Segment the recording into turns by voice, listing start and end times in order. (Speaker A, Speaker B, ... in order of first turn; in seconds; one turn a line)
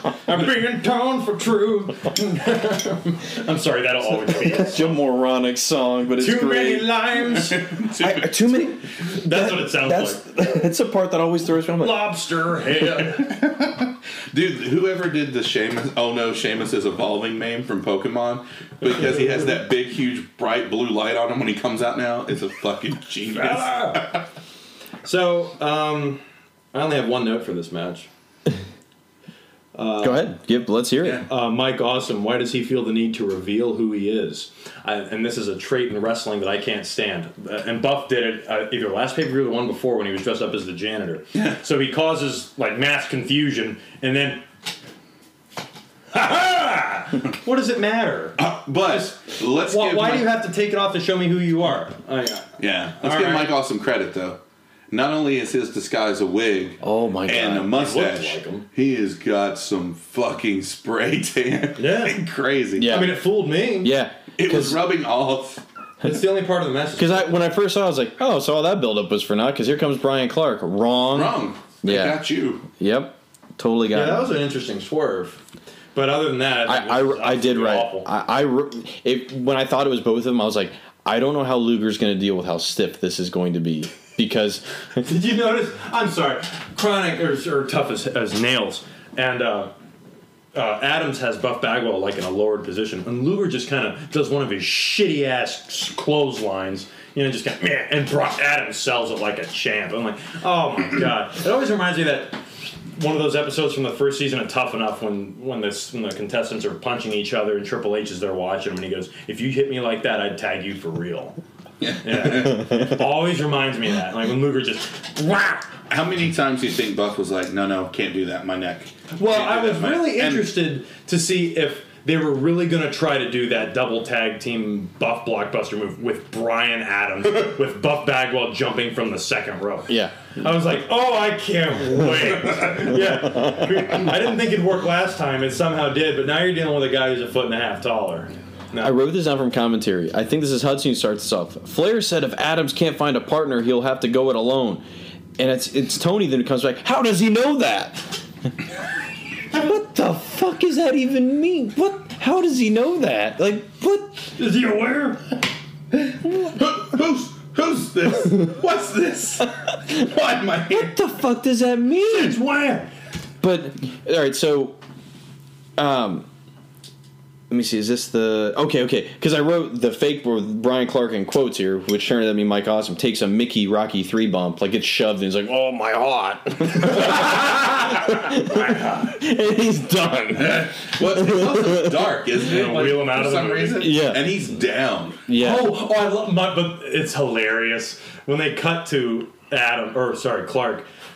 Speaker A: 0.2-5.0
Speaker B: 4.3-6.9
Speaker A: 6.2-7.7
Speaker C: 7.2-8.6
Speaker B: 8.0-12.0
Speaker A: 9.0-10.2
Speaker A: 11.8-13.3
Speaker C: 13.2-24.2
Speaker A: 23.3-24.2
Speaker A: 25.0-26.2
Speaker A: 26.7-28.1
Speaker A: 29.7-30.3
Speaker B: 30.0-31.2
Speaker A: 31.2-44.4
Speaker A: 46.1-49.1
Speaker C: 48.4-50.3
Speaker A: 49.7-52.5
Speaker C: 52.6-54.4
Speaker A: 53.0-53.5
Speaker C: 54.9-63.0
Speaker B: 56.8-57.7
Speaker A: 57.7-58.6
Speaker A: 61.8-62.2
Speaker B: 62.8-64.8
Speaker A: 62.9-63.9
Speaker C: 64.4-65.6
Speaker A: 66.0-67.4
Speaker B: 67.0-74.4
Speaker C: 71.1-72.6
Speaker A: 73.9-75.4
Speaker A: 75.9-78.1
Speaker B: 76.7-85.0
Speaker A: 85.0-89.7
Speaker A: 90.5-102.4
Speaker A: 103.0-111.4
Speaker C: 111.8-112.7
Speaker A: 112.0-115.7
Speaker C: 115.9-120.5
Speaker A: 119.1-138.9
Speaker B: 129.9-130.1
Speaker B: 133.2-133.9
Speaker B: 138.8-144.8
Speaker B: 145.4-148.2
Speaker B: 149.5-154.3
Speaker A: 154.4-155.2
Speaker C: 156.3-160.9
Speaker B: 160.7-162.4
Speaker A: 162.1-162.9
Speaker B: 163.4-164.8
Speaker B: 165.8-166.3
Speaker B: 167.5-182.1
Speaker A: 177.3-179.1
Speaker C: 180.3-185.2
Speaker A: 182.3-183.9
Speaker B: 183.8-184.2
Speaker B: 185.3-185.7
Speaker A: 185.3-190.9